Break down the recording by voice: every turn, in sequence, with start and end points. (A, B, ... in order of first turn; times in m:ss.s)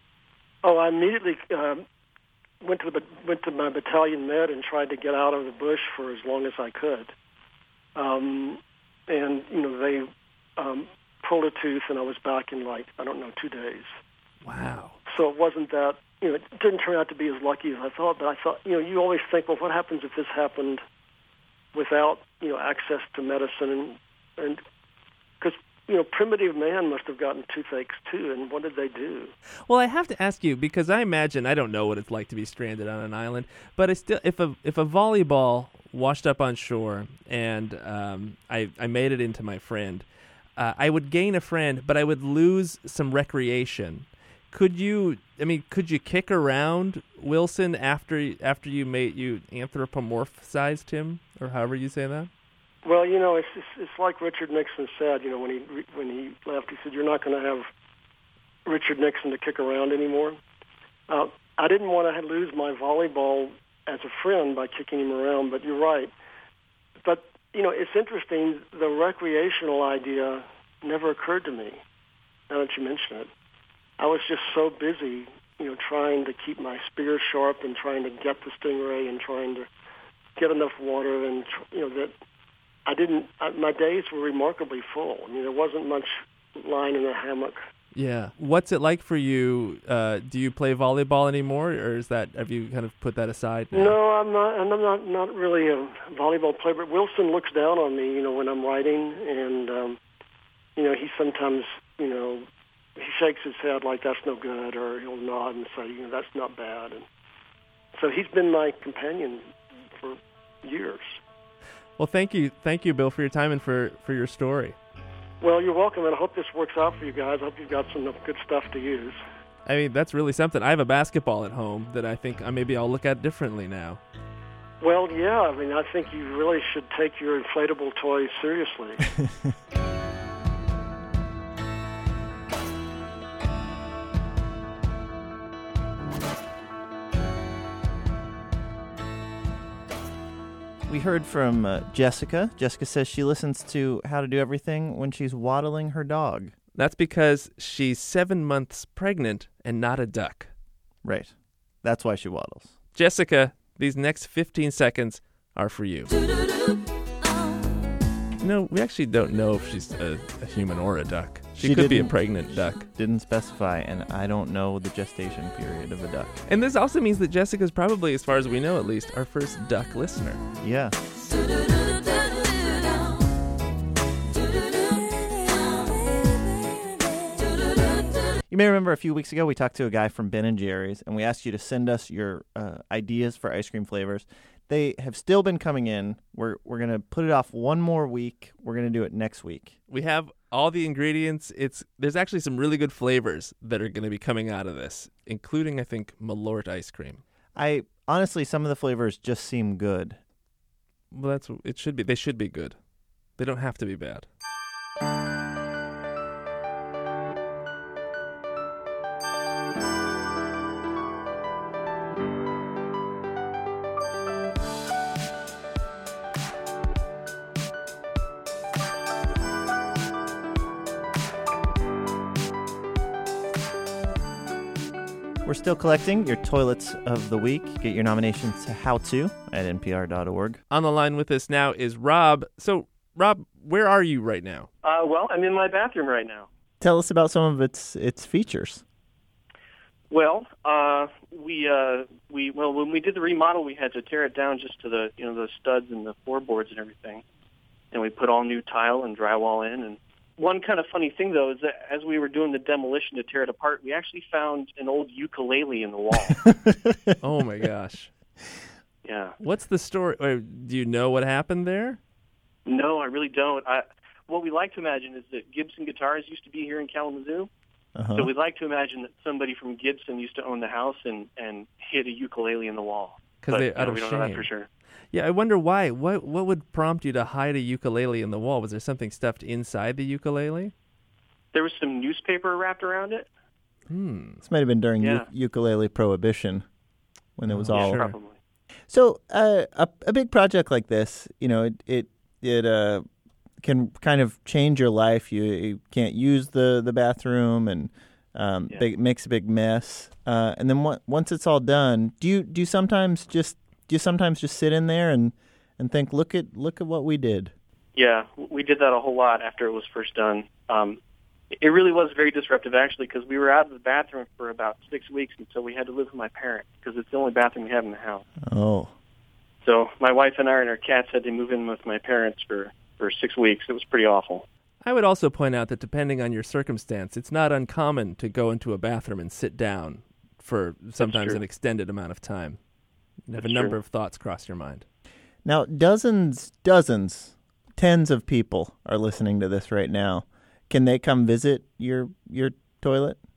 0:00.6-0:01.8 A
0:02.6-0:07.1 A
0:08.0-0:14.0 A
0:14.4-0:15.0 B
0:15.1-0:20.8 A
0:21.7-0:24.6 A
0:25.4-0:29.3 A
0:29.7-0:52.3 B
0:52.8-0:57.7 A
0:58.7-1:00.4 A
1:01.1-1:06.1 A
1:07.0-1:11.8 A
1:12.5-1:13.3 A
1:14.0-1:19.7 A
1:20.4-1:22.1 A
1:22.9-1:27.6 A
1:27.9-1:34.0 B
1:33.7-1:40.0 A
1:40.8-1:47.0 A
1:48.0-1:51.2 A
1:52.0-1:54.8 B
1:55.4-1:59.2 A
1:59.7-2:04.0 B
2:04.8-2:09.1 A
2:20.9-2:26.5 C
2:26.8-2:30.5 B
2:31.0-2:32.8 C
2:33.0-2:36.1 B
2:38.4-2:42.9 B
2:41.6-2:46.4 C
2:46.5-2:50.4 B
2:50.6-2:51.0 C
2:58.5-3:09.8 C
3:09.9-3:17.2 B
3:17.6-3:20.2 C
3:21.1-3:22.8 B
3:23.4-3:24.3 B
3:45.4-3:50.6 C
3:50.7-3:54.7 B
3:54.8-3:56.5 D
3:56.8-3:58.8 C
4:00.1-4:07.2 D
4:07.9-4:16.4 D
4:17.2-4:18.1 B
4:19.0-4:19.4 D
4:19.4-4:22.0 B
4:22.7-4:27.5 D
4:28.0-4:28.3 C
4:28.2-4:34.7 D
4:33.4-4:34.5 B
4:35.1-4:40.7 B
4:41.5-4:43.3 D
4:43.9-4:44.4 B
4:44.4-4:46.6 C
4:45.0-4:45.3 D
4:47.4-4:48.1 C
4:47.5-4:48.2 B
4:47.7-4:48.4 D
4:48.9-4:53.0 C
4:53.6-5:07.5 C
5:08.0-5:11.0 D
5:11.5-5:18.2 D
5:18.4-5:18.9 C
5:19.6-5:24.4 D
5:24.8-5:32.6 B
5:31.0-5:31.4 D
5:33.3-5:34.8 B
5:33.4-5:33.8 D
5:35.4-5:43.2 C